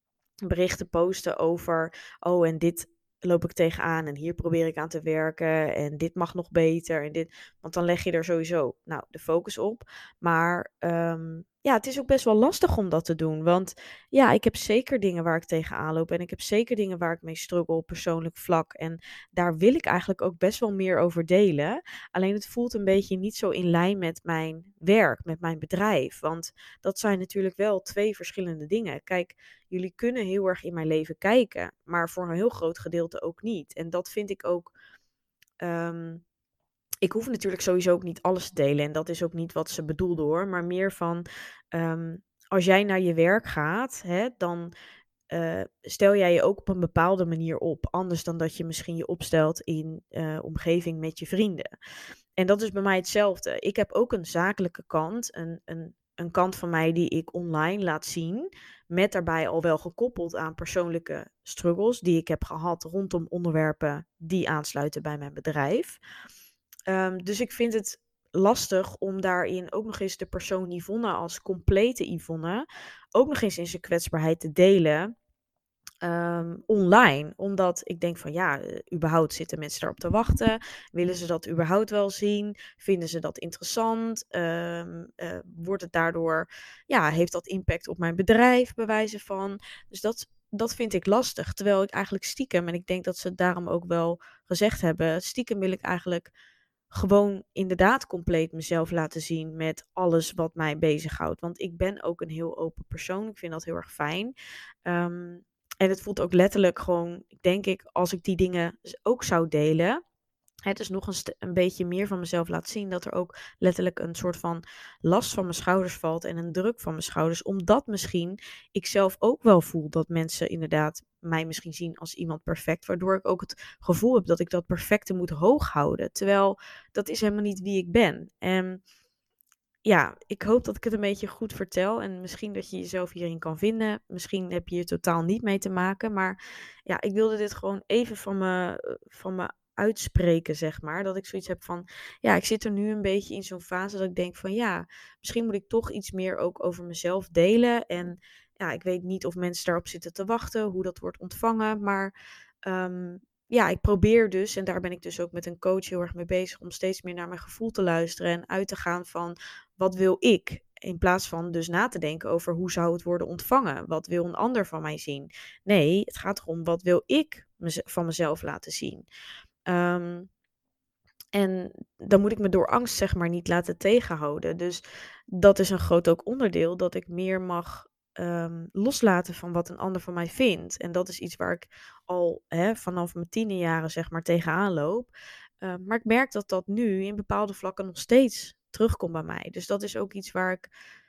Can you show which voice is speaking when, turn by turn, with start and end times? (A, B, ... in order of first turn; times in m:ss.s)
0:00.4-0:34.7 A
0:35.6-0:36.2 A
0:37.0-0:44.7 A
0:45.3-0:51.7 A
0:52.4-1:06.0 A
1:06.9-1:15.1 A
1:16.0-1:36.3 A
1:36.9-1:44.3 A
1:44.9-1:50.0 A
1:50.6-2:08.8 A
2:09.8-2:32.1 A
2:32.7-2:49.1 A
2:49.7-2:50.3 A
2:51.3-3:10.7 A